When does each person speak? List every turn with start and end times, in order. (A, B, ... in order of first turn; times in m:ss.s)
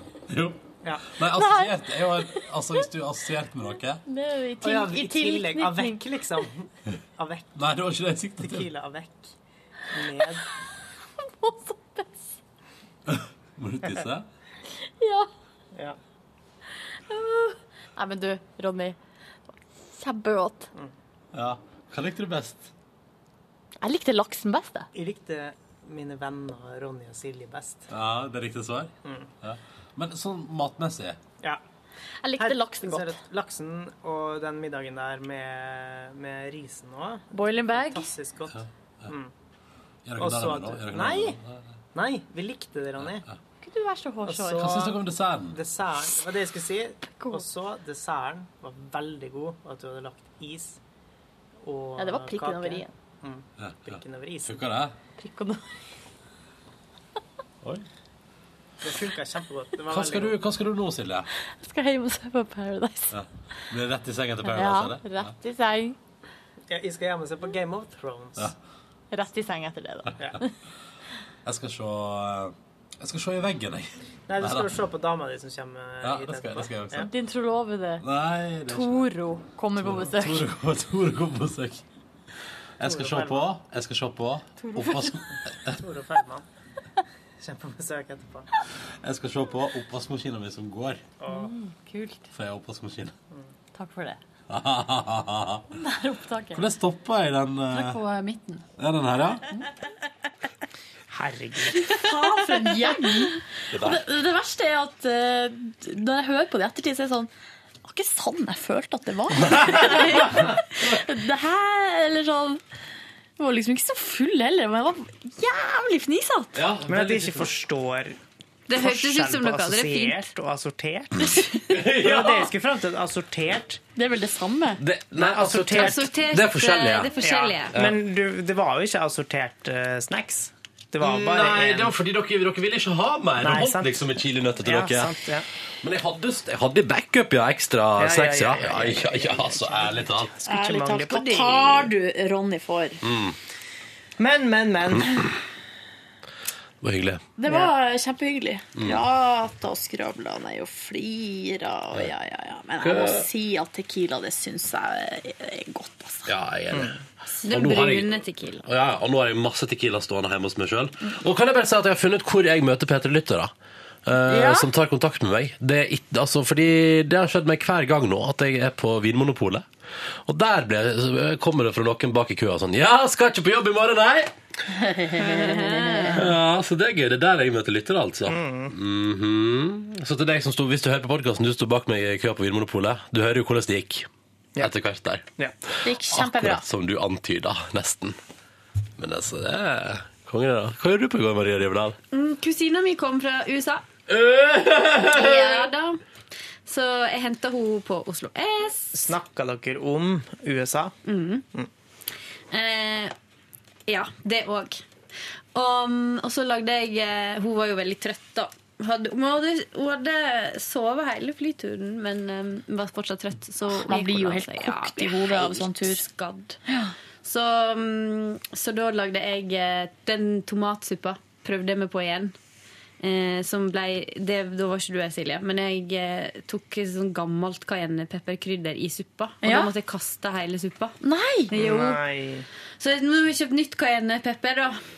0:00.3-0:00.6 A
0:00.8-0:01.2 B
0:01.1-0:04.0 A
0:01.3-0:02.4 C
0:04.1-0:06.0 C
0:04.6-0:07.6 B
0:07.6-0:08.7 A
0:08.4-0:09.3 B
0:09.9-0:10.5 B
0:11.2-0:12.3 C
0:13.1-0:14.3 A
0:15.0-0:15.3 C
0:17.1-0:19.0 C
0:19.8-0:20.7 C
0:21.3-0:22.7 A
0:23.8-0:24.9 C
0:24.9-0:27.9 B
0:27.9-0:28.9 A
0:29.0-0:29.3 B
0:29.4-0:31.1 A
0:30.2-0:31.2 D
0:32.2-0:33.2 C
0:32.4-0:39.3 B
0:37.3-0:38.1 C
0:40.2-0:41.6 A
0:40.2-0:41.4 B
0:40.2-0:41.1 D
0:41.9-0:43.3 B
0:43.6-0:44.7 C
0:44.2-0:50.8 B
0:44.6-0:45.6 D
0:47.2-0:47.4 C
0:51.6-0:54.6 B
0:52.0-0:52.9 C
0:53.6-0:54.0 A
0:54.5-0:54.9 A
0:55.2-0:55.7 C
0:58.8-1:00.4 B
0:59.9-1:01.2 D
1:01.0-1:01.2 A
1:01.6-1:03.2 C
1:03.1-1:05.4 A
1:04.4-1:06.0 C
1:06.7-1:08.5 B
1:09.1-1:10.5 C
1:11.4-1:14.6 A
1:14.3-1:17.1 B
1:16.0-1:17.1 A
1:17.0-1:18.0 C
1:18.0-1:19.1 A
1:18.7-1:20.5 C
1:19.8-1:21.8 A
1:22.8-1:25.8 A
1:22.8-1:23.5 B
1:24.6-1:25.2 C
1:25.7-1:26.4 B
1:27.4-1:28.5 B
1:29.0-1:31.0 A
1:31.2-1:31.5 B
1:31.3-1:32.3 C
1:32.3-1:33.1 A
1:33.8-1:34.2 C
1:34.5-1:35.6 A
1:35.7-1:36.6 C
1:36.6-1:38.0 A
1:37.7-1:38.6 C
1:38.8-1:39.4 A
1:41.1-1:42.0 B
1:41.9-1:47.3 C
1:43.7-1:44.0 D
1:47.8-1:52.6 C
1:49.5-1:50.6 D
1:53.4-1:56.6 C
1:56.6-1:57.5 D
1:56.9-1:58.2 B
1:58.7-2:00.2 E
1:58.8-2:03.8 B
2:01.2-2:01.6 C
2:01.7-2:02.5 D
2:04.0-2:04.8 C
2:04.8-2:07.1 D
2:05.2-2:06.1 B
2:05.7-2:07.8 E
2:07.2-2:11.9 B
2:11.0-2:15.2 D
2:13.4-2:14.1 B
2:14.6-2:15.5 B
2:15.8-2:20.3 D
2:18.0-2:21.9 B
2:20.5-2:23.0 C
2:23.0-2:23.4 D
2:24.2-2:25.4 B
2:26.8-2:27.2 D
2:27.4-2:36.3 C
2:27.5-2:27.7 B
2:32.8-2:33.3 D
2:36.3-2:43.5 D
2:37.4-2:38.7 E
2:44.1-2:49.7 D
2:44.3-2:44.7 C
2:50.2-2:54.3 D
2:54.7-2:56.3 C
2:55.1-2:56.3 E
2:56.1-3:04.1 D
2:58.3-2:58.7 B
3:04.6-3:05.2 D
3:05.8-3:06.6 C
3:06.0-3:08.2 D
3:09.0-3:12.0 D
3:12.1-3:13.8 E
3:14.1-3:15.7 D
3:15.1-3:16.0 E
3:16.7-3:19.1 E
3:18.9-3:20.9 B
3:21.0-3:21.4 E
3:22.5-3:23.1 E
3:23.9-3:24.8 E
3:25.5-3:36.6 E
3:33.7-3:36.0 C
3:37.2-3:42.3 E
3:43.0-3:51.0 E
3:49.4-3:49.7 C
3:51.0-3:51.5 C
3:51.5-3:52.0 E
3:51.5-3:52.5 B
3:52.8-3:54.8 E